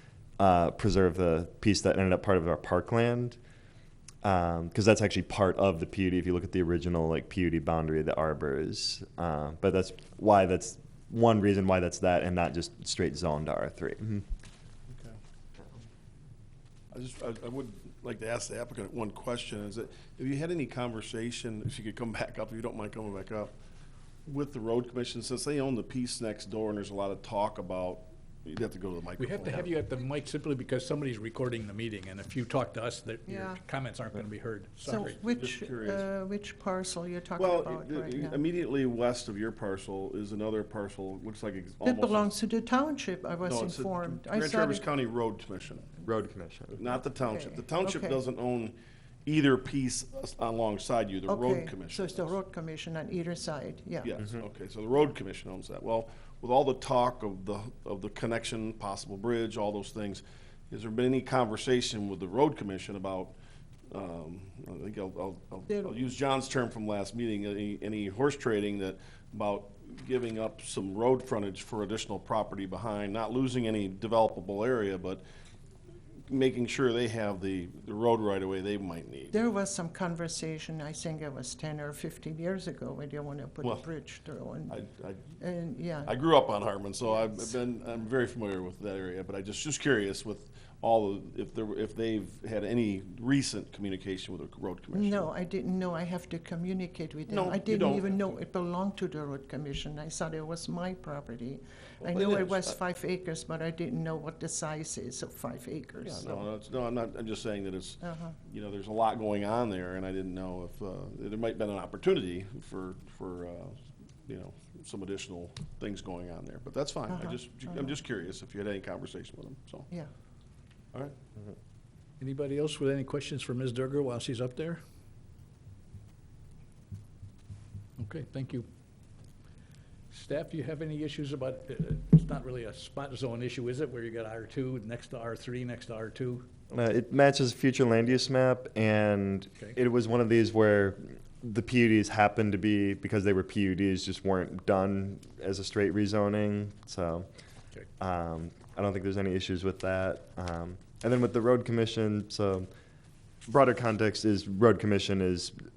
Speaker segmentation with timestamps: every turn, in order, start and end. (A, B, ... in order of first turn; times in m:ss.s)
0:00.4-0:03.4 A
0:04.2-0:14.3 A
0:14.9-0:15.2 B
0:16.9-0:23.5 B
0:24.2-0:29.7 B
0:29.2-0:35.2 C
0:33.3-0:33.6 D
0:34.8-0:38.4 D
0:34.9-0:36.1 B
0:37.4-0:42.3 B
0:41.8-0:44.8 D
0:43.4-0:46.0 B
0:46.0-0:46.8 A
0:46.7-0:52.3 B
0:47.1-0:48.2 D
0:51.3-0:54.2 D
0:54.0-1:03.3 B
1:03.9-1:15.2 B
1:16.3-1:19.3 B
1:19.3-1:24.8 D
1:24.7-1:25.3 B
1:25.4-1:26.1 D
1:26.0-1:35.3 B
1:27.0-1:27.6 D
1:34.9-1:46.5 D
1:37.3-1:38.4 B
1:42.0-1:42.8 B
1:46.0-1:59.9 B
1:48.0-1:48.4 D
1:57.1-1:57.9 D
2:02.2-2:04.8 C
2:08.0-2:08.7 C
2:10.1-2:16.5 C
2:16.7-2:27.3 A
2:28.0-2:32.7 A
2:33.5-2:35.6 A